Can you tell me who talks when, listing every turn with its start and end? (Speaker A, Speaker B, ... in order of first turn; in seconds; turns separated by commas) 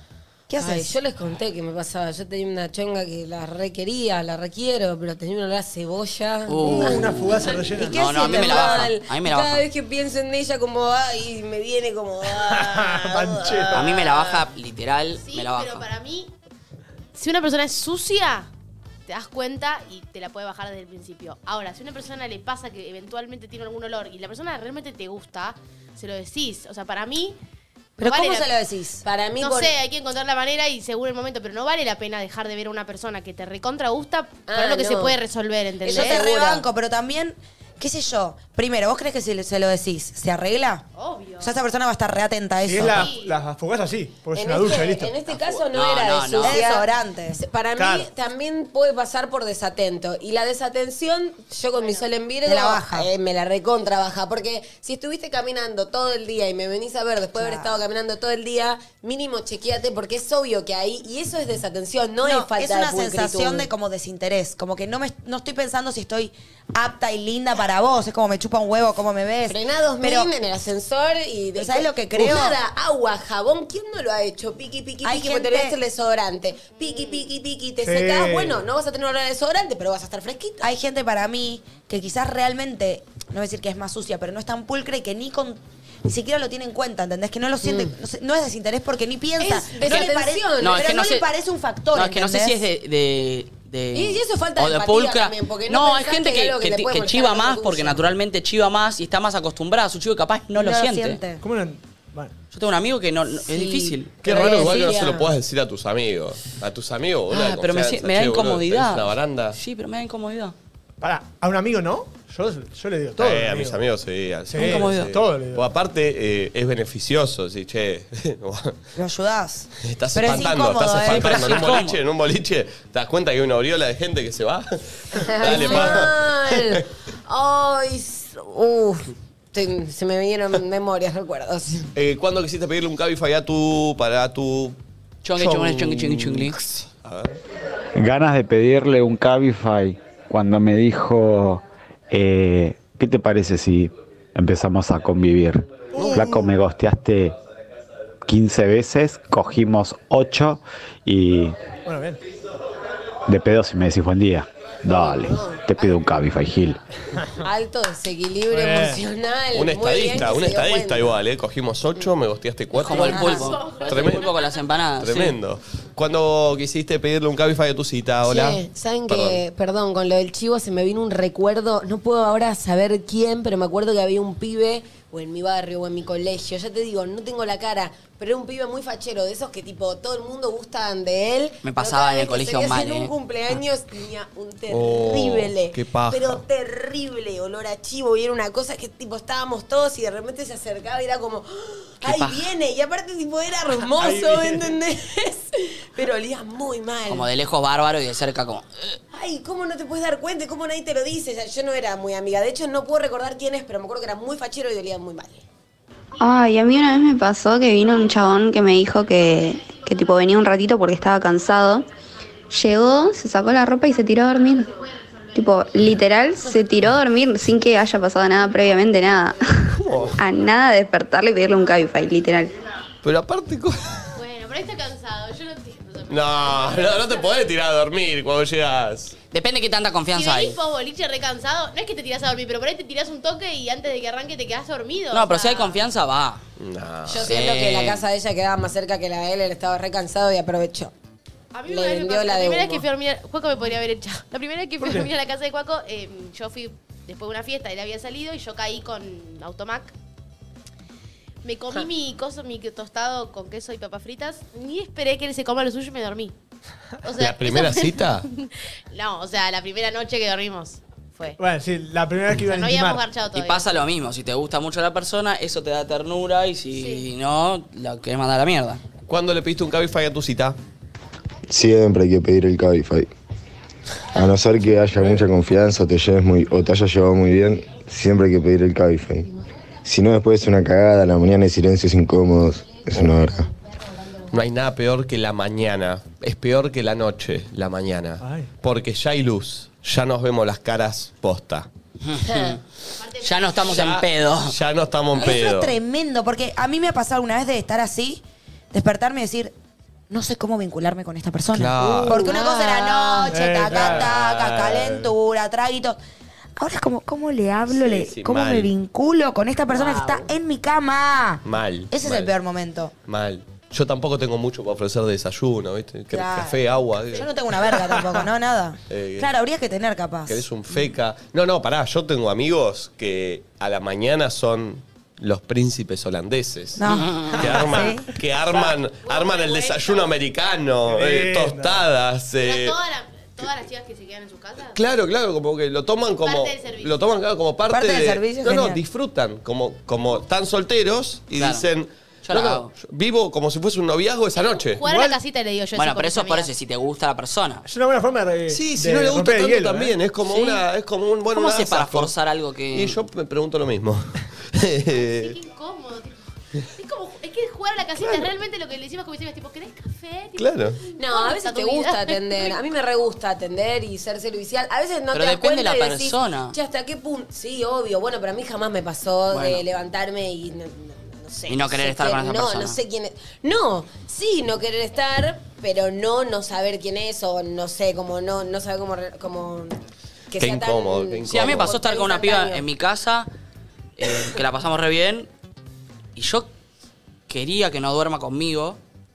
Speaker A: 0.5-1.0, Speaker B: 0.6-7.3, Speaker C: 6.5-9.6, Speaker D: 6.6-8.1, Speaker A: 7.7-8.9, Speaker B: 8.1-14.4, Speaker D: 12.3-13.9, Speaker C: 13.7-15.8, Speaker E: 15.2-16.3, Speaker E: 17.1-18.5, Speaker E: 19.1-27.4, Speaker A: 28.0-29.0, Speaker E: 28.0-28.5, Speaker B: 29.0-29.7, Speaker E: 29.4-36.3, Speaker B: 34.5-35.2, Speaker B: 35.8-36.6, Speaker A: 35.9-40.9, Speaker E: 41.0-41.6, Speaker A: 41.4-43.1, Speaker D: 42.6-45.1, Speaker E: 42.8-43.4, Speaker B: 44.3-63.7, Speaker C: 45.3-46.6, Speaker A: 46.4-47.4, Speaker D: 47.8-48.1, Speaker A: 52.4-53.1, Speaker A: 57.4-57.8, Speaker A: 62.2-70.3, Speaker B: 69.5-80.7, Speaker A: 71.5-72.6, Speaker A: 75.0-75.8, Speaker E: 76.9-77.2, Speaker D: 77.8-78.6, Speaker A: 80.6-92.6, Speaker B: 87.6-87.9, Speaker B: 89.4-90.9, Speaker C: 90.6-91.2, Speaker C: 91.9-101.2, Speaker B: 93.9-98.0, Speaker A: 100.5-101.4, Speaker D: 101.4-102.3, Speaker C: 102.5-104.1, Speaker B: 103.4-105.3, Speaker F: 104.2-109.6, Speaker C: 107.3-110.5, Speaker D: 111.0-113.8, Speaker F: 113.2-118.8, Speaker D: 114.5-115.7, Speaker C: 114.5-115.1, Speaker A: 119.0-121.6, Speaker F: 119.8-126.8, Speaker C: 121.0-122.0, Speaker B: 125.1-131.9, Speaker F: 131.9-134.8, Speaker C: 135.2-136.6, Speaker F: 135.3-137.4, Speaker G: 137.9-147.3, Speaker D: 145.9-146.6, Speaker F: 145.9-146.3, Speaker G: 148.2-151.6, Speaker D: 151.8-152.2, Speaker G: 153.3-156.8, Speaker B: 154.9-155.6, Speaker B: 157.4-161.2, Speaker D: 158.5-159.0, Speaker F: 159.5-164.3, Speaker C: 162.8-165.3, Speaker A: 163.1-163.4, Speaker E: 163.2-164.8, Speaker F: 165.0-169.4, Speaker B: 168.2-197.3, Speaker C: 181.6-183.1, Speaker F: 184.7-186.4, Speaker C: 192.0-192.4, Speaker D: 193.9-194.7, Speaker C: 197.1-199.0, Speaker B: 199.1-205.4, Speaker H: 206.2-211.8, Speaker H: 212.5-214.8, Speaker H: 215.3-222.5, Speaker F: 219.8-220.2, Speaker F: 223.0-224.1, Speaker E: 224.1-227.2, Speaker F: 226.1-229.2, Speaker C: 229.3-230.6, Speaker E: 230.1-235.8, Speaker C: 235.1-236.4, Speaker F: 236.6-237.4, Speaker B: 237.1-240.9, Speaker C: 237.2-238.0, Speaker E: 241.5-249.9, Speaker B: 241.7-242.8, Speaker D: 244.8-245.1, Speaker E: 251.4-256.3, Speaker E: 257.0-261.4, Speaker F: 257.1-258.3, Speaker D: 261.4-263.0, Speaker E: 262.4-263.7, Speaker C: 263.3-268.8, Speaker E: 266.8-267.1, Speaker F: 269.1-270.6, Speaker I: 271.5-273.1, Speaker I: 274.1-279.3, Speaker I: 279.8-283.5, Speaker F: 284.3-291.7, Speaker D: 288.2-288.5, Speaker C: 292.0-292.6, Speaker B: 292.3-292.5, Speaker E: 293.0-293.9, Speaker C: 293.2-294.6, Speaker F: 293.6-295.7, Speaker A: 295.1-299.5, Speaker A: 300.1-306.0, Speaker F: 301.5-302.2, Speaker B: 302.0-303.4, Speaker D: 303.3-304.1, Speaker F: 303.6-305.0, Speaker A: 306.6-312.9, Speaker F: 307.7-308.7, Speaker B: 309.7-310.1, Speaker F: 311.4-312.3, Speaker F: 313.1-317.3, Speaker A: 316.1-320.4, Speaker D: 317.7-318.2, Speaker F: 318.9-319.3, Speaker F: 320.3-326.8, Speaker A: 326.8-328.1, Speaker C: 326.9-327.5, Speaker F: 327.4-332.8, Speaker D: 327.4-327.8, Speaker E: 329.0-330.1, Speaker D: 330.9-331.8, Speaker E: 332.4-334.8, Speaker F: 334.7-344.8, Speaker E: 336.2-337.1, Speaker A: 337.7-338.8, Speaker C: 341.4-341.7, Speaker C: 342.2-342.7, Speaker E: 344.4-346.5, Speaker D: 344.8-345.1, Speaker C: 345.7-347.6, Speaker D: 347.6-350.0, Speaker F: 348.5-352.1, Speaker C: 350.2-350.6, Speaker C: 351.3-353.0, Speaker F: 352.7-355.4, Speaker E: 354.9-362.6, Speaker F: 360.4-360.8, Speaker B: 361.0-379.8, Speaker C: 365.1-366.5, Speaker C: 369.3-369.6, Speaker C: 371.5-372.8, Speaker B: 380.3-382.6, Speaker F: 380.4-381.7, Speaker C: 381.3-383.3, Speaker C: 384.0-385.3, Speaker C: 386.1-386.5, Speaker C: 387.3-388.8